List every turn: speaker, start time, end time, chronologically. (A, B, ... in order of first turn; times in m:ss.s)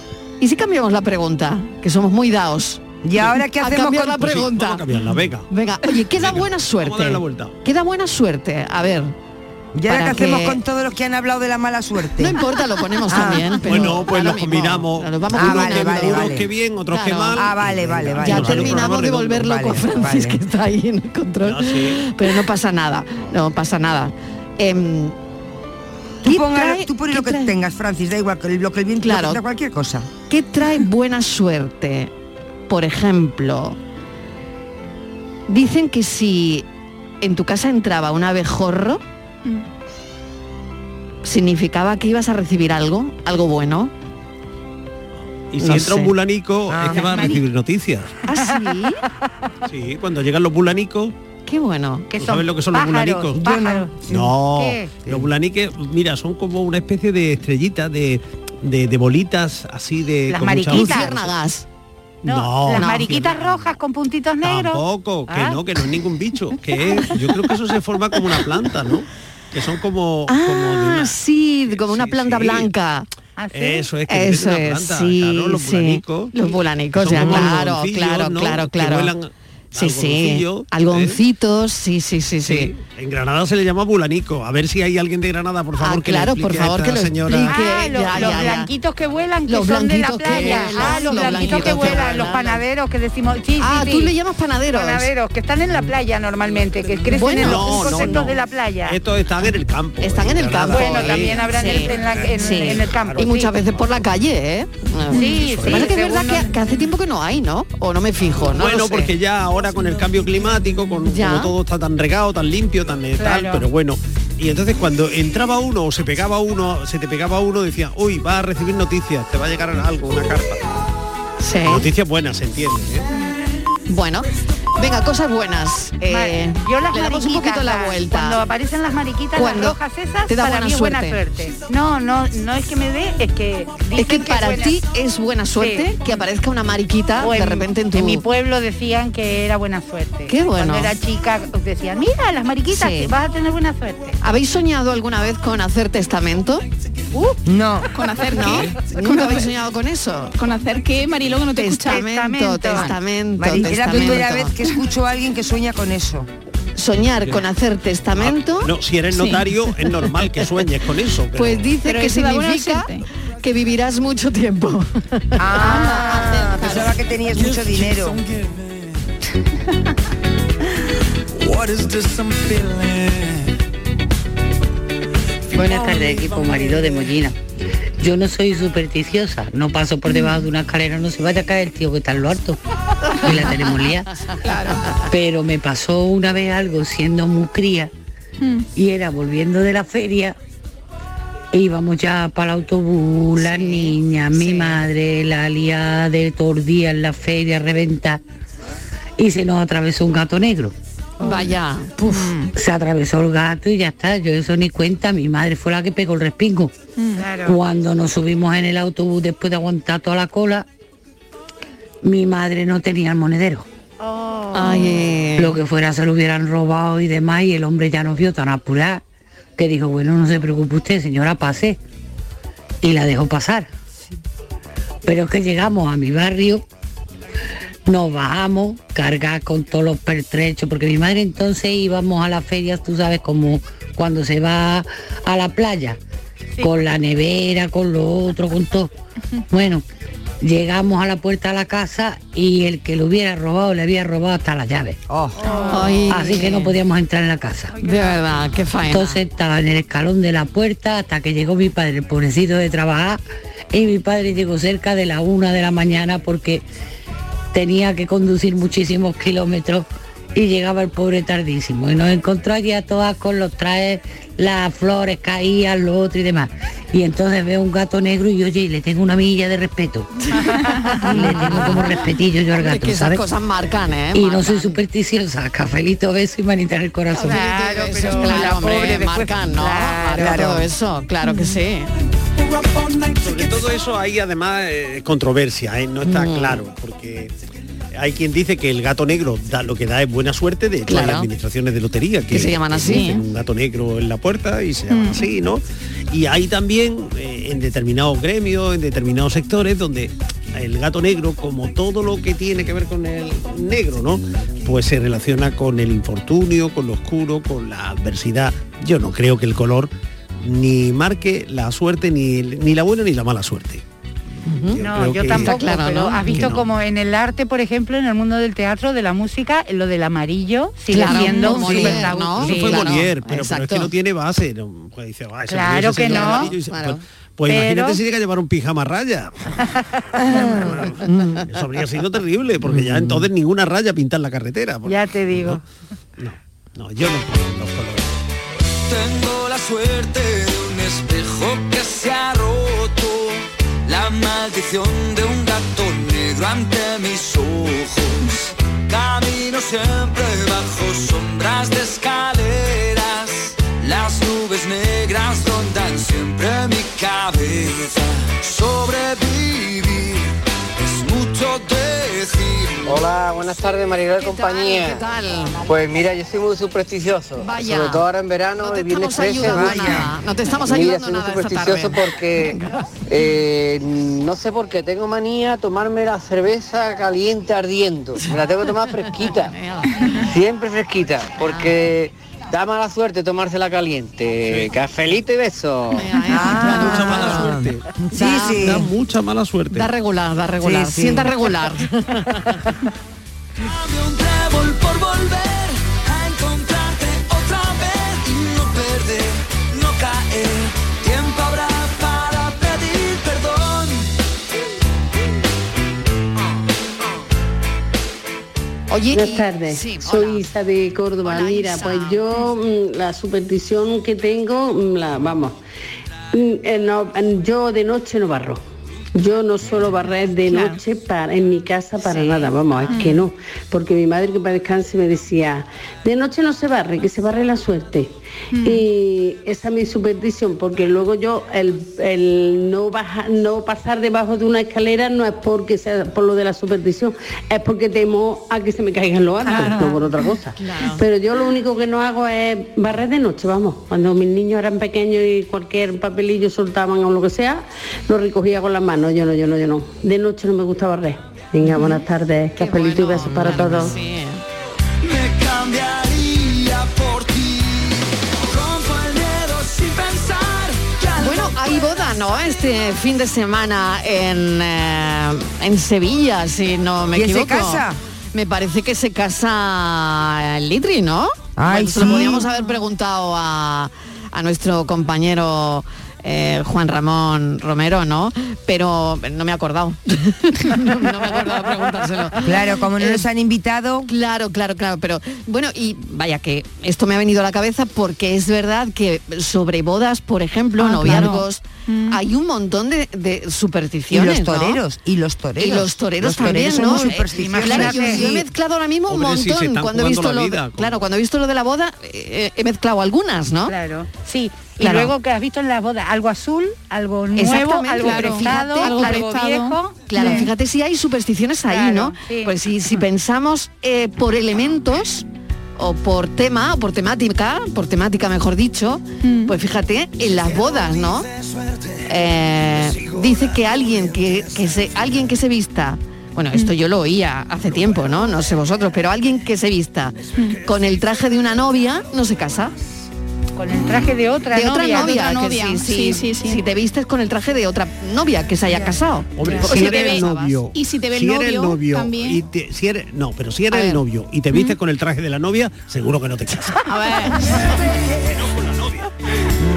0:00.4-0:04.8 A
0:03.0-0:04.2 B
0:04.1-0:05.5 C
0:05.5-0:09.1 A
0:06.1-0:07.6 C
0:09.7-0:12.4 B
0:09.8-0:10.6 A
0:12.2-0:16.4 A
0:13.0-0:13.9 B
0:13.6-0:19.7 C
0:15.3-0:16.4 B
0:16.9-0:17.5 A
0:17.3-0:20.4 B
0:18.2-0:25.2 A
0:21.4-0:22.0 C
0:26.2-0:30.1 B
0:26.2-0:27.6 A
0:29.0-0:29.4 A
0:30.3-0:32.1 A
0:32.7-0:33.8 A
0:35.5-0:36.6 A
0:37.2-0:39.0 A
0:41.2-0:43.9 A
0:45.5-0:48.2 C
0:45.6-0:46.1 A
0:46.7-0:47.3 B
0:46.9-0:47.3 D
0:48.3-0:49.0 A
0:49.7-0:51.1 C
0:51.4-0:52.1 A
0:52.1-0:54.9 D
0:52.1-1:01.3 C
0:53.4-0:53.9 B
1:00.3-1:01.1 D
1:00.7-1:01.6 A
1:02.2-1:03.5 C
1:02.2-1:05.6 D
1:02.7-1:03.2 A
1:04.4-1:12.7 C
1:10.3-1:13.1 A
1:13.4-1:13.8 D
1:13.5-1:21.2 C
1:14.1-1:19.1 A
1:19.8-1:22.7 A
1:22.4-1:28.4 C
1:25.8-1:28.7 A
1:27.4-1:34.1 D
1:29.5-1:32.6 A
1:30.3-1:32.4 C
1:33.6-1:35.1 A
1:34.7-1:39.0 D
1:37.0-1:44.0 C
1:37.1-1:38.3 A
1:40.0-1:49.1 A
1:40.7-1:43.5 D
1:45.1-1:46.5 D
1:45.4-1:45.9 C
1:48.3-2:00.6 C
1:51.1-1:51.5 A
1:53.2-1:53.6 D
2:01.4-2:01.9 A
2:01.6-2:03.1 C
2:03.9-2:08.4 A
2:06.1-2:14.8 D
2:09.4-2:11.2 A
2:14.0-2:18.2 A
2:15.6-2:16.2 D
2:17.2-2:24.2 D
2:20.3-2:20.9 A
2:22.7-2:23.1 A
2:24.2-2:26.6 A
2:27.4-2:27.9 B
2:27.9-2:28.6 E
2:28.2-2:30.3 A
2:30.4-2:32.0 E
2:31.6-2:34.6 A
2:31.7-2:33.0 D
2:33.4-2:36.3 B
2:36.8-2:40.6 A
2:37.2-2:37.5 C
2:38.1-2:41.7 C
2:41.3-2:47.0 A
2:41.8-2:43.0 E
2:45.6-2:48.2 B
2:51.5-2:51.8 F
2:55.5-2:57.4 G
2:58.0-3:02.6 G
3:03.2-3:04.1 G
3:04.4-3:04.8 E
3:05.1-3:07.9 G
3:08.8-3:10.4 G
3:11.5-3:18.2 G
3:13.4-3:14.4 A
3:19.2-3:20.7 G
3:21.2-3:21.6 D
3:21.2-3:22.4 A
3:22.1-3:22.4 D
3:22.5-3:26.7 G
3:27.2-3:27.6 D
3:27.4-3:30.6 G
3:32.0-3:33.6 G
3:34.0-3:35.0 D
3:34.5-3:35.6 A
3:35.4-3:39.0 G
3:39.6-3:41.8 G
3:42.8-3:43.7 G
3:45.0-3:46.6 G
3:47.9-3:56.0 G
3:56.6-3:56.9 D
3:56.6-3:58.9 G
3:59.5-3:59.8 G
4:00.4-4:05.0 G
4:05.1-4:05.5 B
4:05.4-4:06.7 D
4:05.7-4:06.5 A
4:06.1-4:07.7 G
4:07.8-4:08.5 D
4:07.8-4:09.2 A
4:08.9-4:13.2 G
4:13.7-4:16.6 G
4:17.5-4:30.1 G
4:30.4-4:30.8 D
4:31.1-4:31.3 A
4:31.1-4:31.8 B
4:31.1-4:33.2 G
4:32.5-4:34.8 A
4:34.1-4:37.4 G
4:37.1-4:40.4 D
4:37.2-4:41.9 A
4:40.1-4:40.7 B
4:42.6-4:47.3 C
4:46.0-4:46.6 A
4:47.9-5:09.9 C
4:50.9-4:51.3 A
4:52.3-4:53.2 A
4:54.9-4:55.2 E
5:10.4-5:13.8 C
5:14.5-5:16.6 A
5:14.5-5:15.7 C
5:14.8-5:22.9 D
5:16.2-5:16.6 C
5:20.9-5:23.9 A
5:21.0-5:29.3 C
5:25.5-5:26.5 D
5:26.0-5:27.0 A
5:27.5-5:28.0 D
5:30.3-5:35.6 C
5:31.0-5:31.4 A
5:34.8-5:35.6 D
5:36.2-5:38.2 C
5:38.8-6:00.3 F
6:00.8-6:03.0 F
6:02.8-6:05.0 H
6:04.2-6:05.7 A
6:05.6-6:19.5 H
6:07.4-6:08.1 A
6:08.6-6:12.8 A
6:09.4-6:10.1 B
6:18.2-6:19.9 A
6:20.3-6:27.0 H
6:21.5-6:21.7 A
6:24.4-6:24.7 C
6:25.9-6:28.8 A
6:26.3-6:27.5 B
6:26.6-6:29.9 C
6:28.0-6:28.9 B
6:29.7-6:32.3 A
6:30.6-6:31.3 B
6:33.6-6:44.1 F
6:48.9-6:50.4 A
6:49.1-6:55.6 I
6:51.2-6:52.5 A
6:56.3-6:58.6 I
6:59.2-7:33.9 I
7:02.1-7:02.5 A
7:19.5-7:20.0 A
7:20.6-7:21.0 A
7:31.8-7:32.0 A
7:32.6-7:34.4 A
7:35.0-7:41.5 F
7:41.2-8:03.2 A
7:47.1-7:48.0 B
7:51.6-7:52.5 B
8:02.4-8:04.1 B
8:04.1-8:14.8 A
8:11.0-8:11.4 B
8:14.1-8:18.4 B
8:15.6-8:23.7 A
8:16.7-8:18.4 D
8:19.1-8:21.0 C
8:23.7-8:30.5 D
8:24.8-8:25.1 A
8:27.4-8:35.2 A
8:28.0-8:29.3 E
8:30.2-8:30.4 E
8:31.7-8:32.5 D
8:35.8-8:41.3 A
8:42.0-8:52.7 A
8:53.6-8:55.2 D
8:54.5-9:00.6 A
8:54.8-8:56.6 E
8:58.7-8:59.7 D
8:59.4-9:06.9 C
8:59.7-9:00.0 E
9:00.7-9:02.4 E
9:03.7-9:04.0 A
9:06.9-9:07.5 E
9:08.1-9:09.1 C